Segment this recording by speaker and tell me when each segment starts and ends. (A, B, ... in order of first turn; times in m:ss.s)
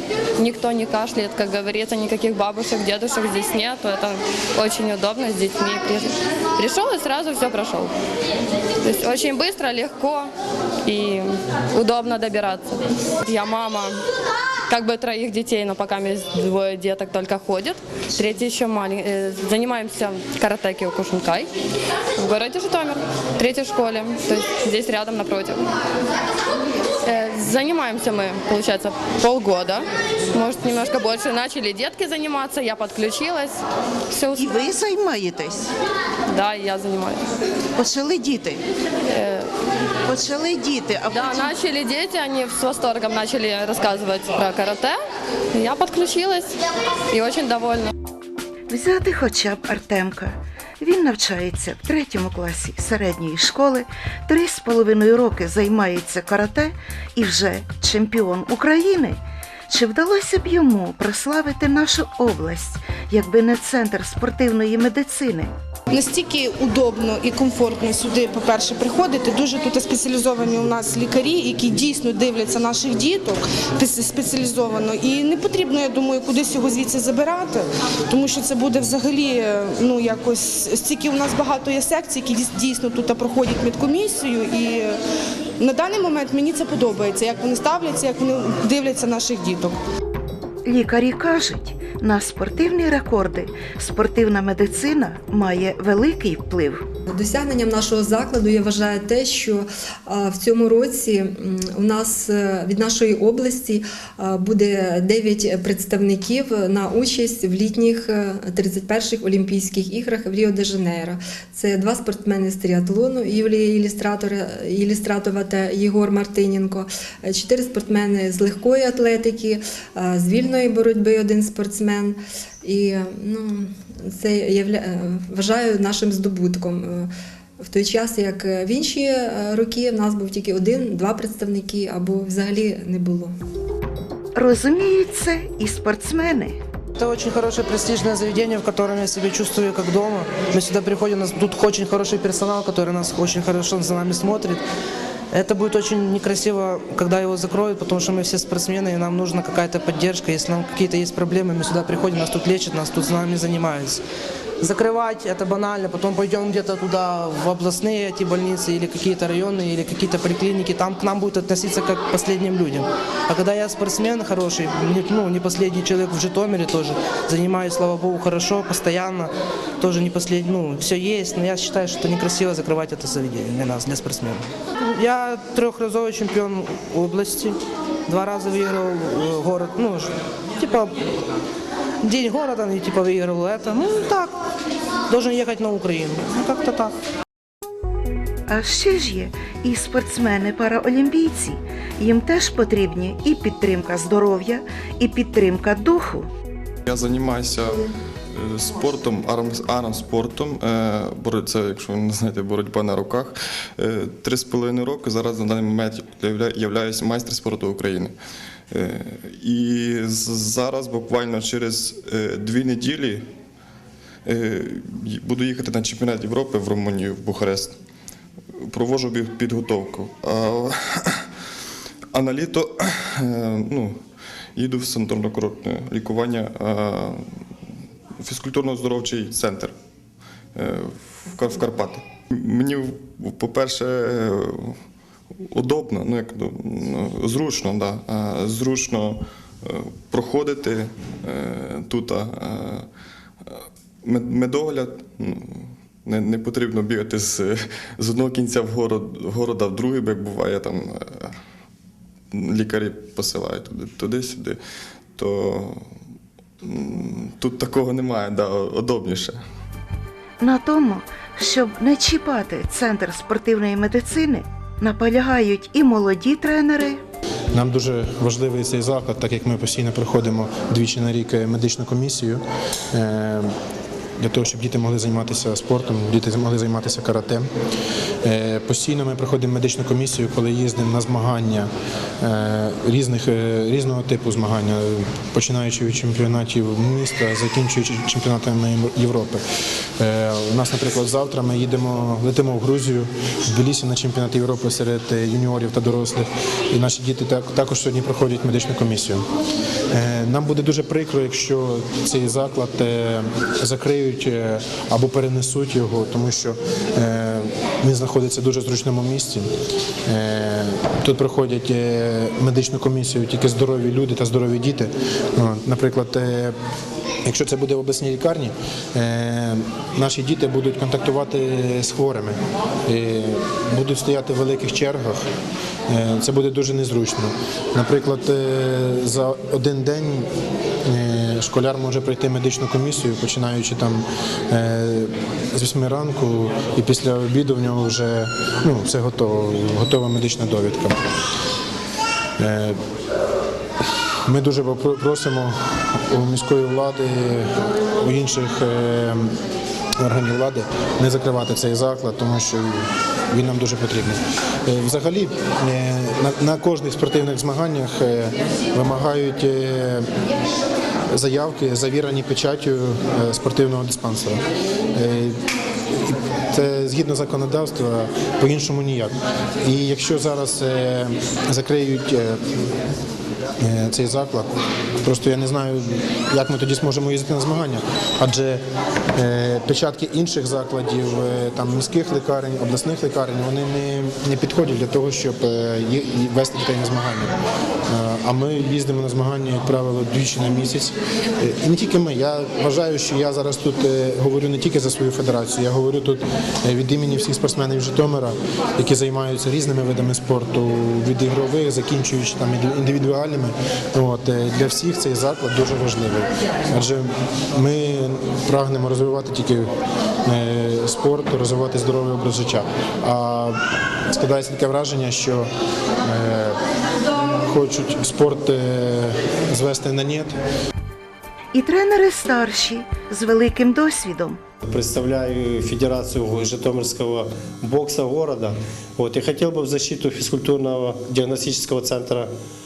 0:00.4-0:07.9 A
0:08.8-0:10.3 A
0:10.9-0:14.0 A
0:14.7-0:21.5 A
0:22.2-0:25.6 A
0:27.0-0:34.6 A
0:34.4-0:35.7 B
0:36.3-0:37.2 A
0:37.8-0:38.6 B
0:39.1-0:39.5 A
0:40.1-0:41.5 B
0:41.1-0:45.0 A
0:45.5-0:46.6 A
0:47.1-0:47.9 A
0:48.7-0:59.2 B
0:59.7-1:05.5 B
1:05.9-1:25.0 C
1:25.6-1:29.8 C
1:30.7-1:36.8 B
1:37.1-2:13.3 D
2:14.4-2:16.6 B
2:17.0-2:24.6 E
2:25.3-2:34.0 E
2:34.6-3:01.0 E
3:02.0-3:04.4 E
3:05.1-3:06.9 E
3:08.5-3:16.3 B
3:16.9-3:28.1 F
3:28.7-3:33.2 F
3:34.3-3:37.8 F
3:38.7-3:41.2 F
3:42.1-3:44.0 F
3:44.6-3:47.4 F
3:48.2-3:49.7 F
3:50.6-3:54.8 F
3:55.5-4:02.9 F
4:03.5-4:11.3 F
4:12.3-4:14.6 F
4:15.2-4:15.9 F
4:16.6-4:19.4 F
4:20.4-4:27.0 B
4:27.5-4:33.5 G
4:34.2-4:37.5 G
4:38.2-4:41.7 G
4:42.2-4:49.4 G
4:50.0-4:59.2 G
4:59.9-5:09.5 G
5:10.1-5:16.6 G
5:17.2-5:25.3 G
5:25.9-5:30.3 G
5:30.8-5:41.0 G
5:42.4-5:42.8 G
5:44.3-5:49.4 G
5:50.0-6:00.1 G
6:01.1-6:04.4 G
6:05.0-6:05.4 G
6:06.0-6:12.4 G
6:13.6-6:14.5 G
6:15.0-6:18.6 G
6:19.2-6:27.4 G
6:27.9-6:49.7 G
6:50.3-6:55.5 G
6:56.0-6:56.6 G
6:57.4-7:00.3 G
7:01.5-7:04.4 B
7:04.6-7:12.3 H